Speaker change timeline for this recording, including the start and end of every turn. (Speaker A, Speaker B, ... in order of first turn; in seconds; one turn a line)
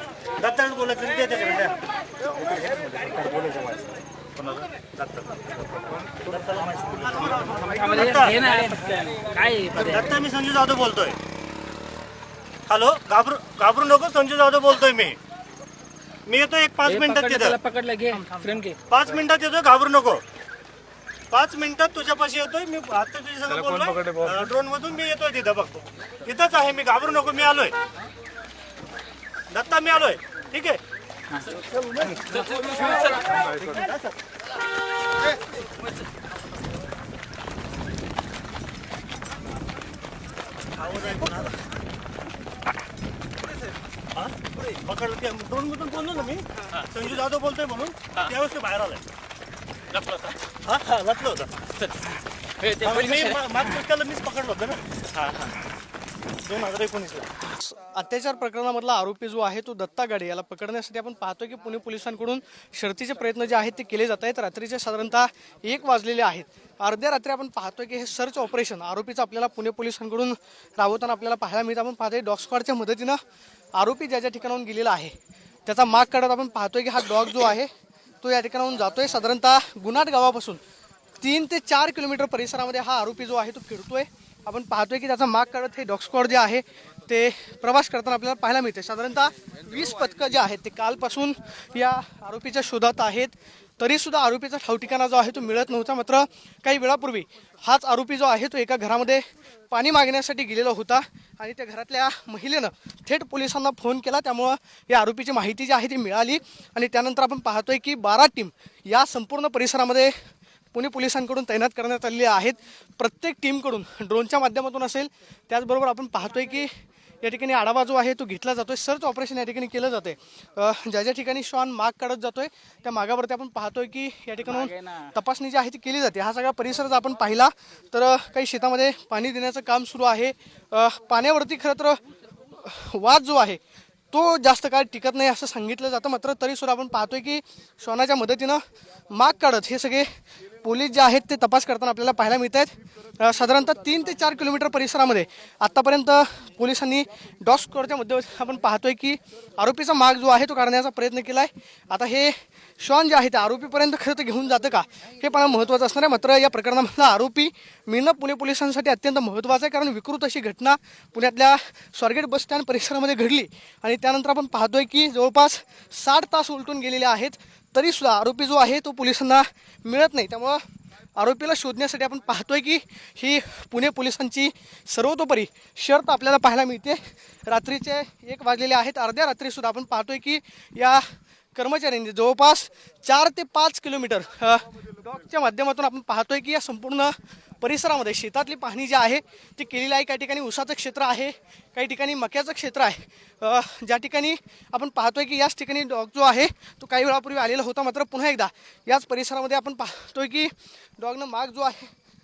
Speaker A: 0.4-1.8
Speaker A: 2.8-3.8
Speaker A: 4.4-5.4
Speaker A: 6.3-8.7
Speaker B: 7.8-10.1
Speaker A: 9.7-11.2
Speaker A: 12.7-15.2
Speaker A: 16.3-17.6
Speaker B: 16.9-18.8
Speaker C: 18.1-18.5
Speaker A: 18.9-20.2
Speaker A: 21.3-27.8
Speaker A: 29.5-30.8
Speaker A: 33.4-34.1
Speaker A: 40.8-41.6
Speaker A: 44.1-49.0
Speaker A: 50.0-51.6
Speaker A: 52.7-55.5
Speaker B: 52.7-53.3
Speaker A: 56.4-57.3
Speaker C: 57.6-73.2
Speaker C: 73.8-75.2
Speaker C: 75.7-77.7
Speaker C: 78.2-80.6
Speaker C: 81.2-110.2
Speaker C: 110.7-140.1
Speaker B: 124.5-125.1
Speaker C: 140.6-170.6
Speaker C: 171.2-201.9